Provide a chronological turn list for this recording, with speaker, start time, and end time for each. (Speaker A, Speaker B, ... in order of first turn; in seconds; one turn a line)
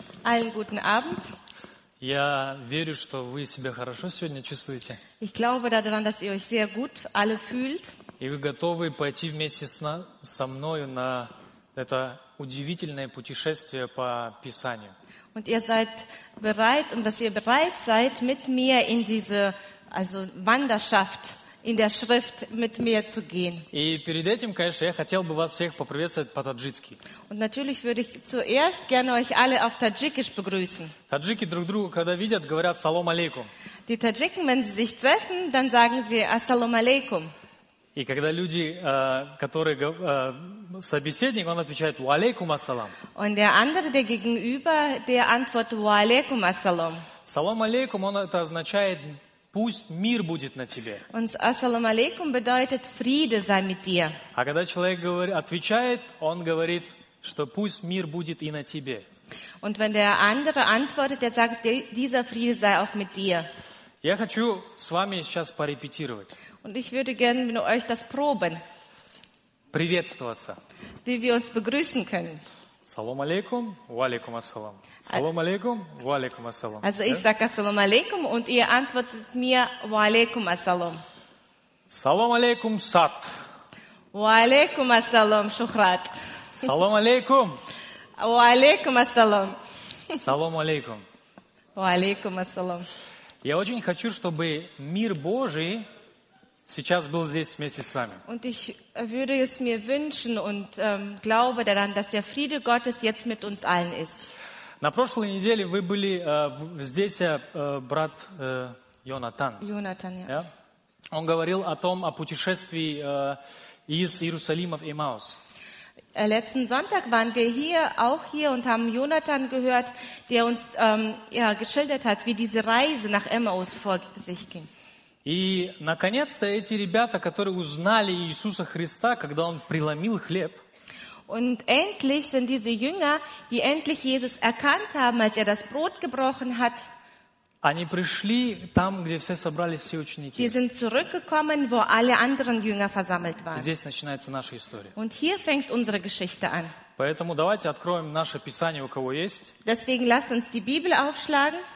Speaker A: 0.2-1.3
Speaker B: 2.0-5.0
Speaker A: 5.2-7.9
Speaker B: 8.2-14.9
Speaker A: 15.3-23.7
Speaker B: 23.7-27.0
Speaker A: 27.3-30.9
Speaker B: 31.1-33.5
Speaker A: 33.9-37.3
Speaker B: 38.0-43.0
Speaker A: 43.1-47.1
Speaker B: 47.2-51.0
Speaker A: 51.1-54.2
Speaker B: 54.3-59.1
Speaker A: 59.6-63.5
Speaker B: 64.0-66.4
Speaker A: 66.6-68.6
Speaker B: 69.7-70.6
Speaker A: 71.0-72.4
Speaker B: 72.8-77.2
Speaker A: 76.8-81.0
Speaker B: 81.9-83.3
Speaker A: 84.1-86.1
Speaker B: 86.5-87.6
Speaker A: 88.2-89.6
Speaker B: 90.1-91.0
Speaker A: 91.8-92.9
Speaker B: 93.4-95.9
Speaker B: 96.7-98.2
Speaker A: 98.3-104.3
Speaker B: 104.8-109.7
Speaker A: 109.6-110.3
Speaker B: 111.1-115.4
Speaker A: 116.2-124.7
Speaker B: 125.2-130.6
Speaker A: 131.3-136.9
Speaker B: 137.6-140.6
Speaker A: 140.4-143.7
Speaker B: 143.5-144.9
Speaker A: 145.0-146.8
Speaker B: 147.0-149.6
Speaker A: 149.7-151.6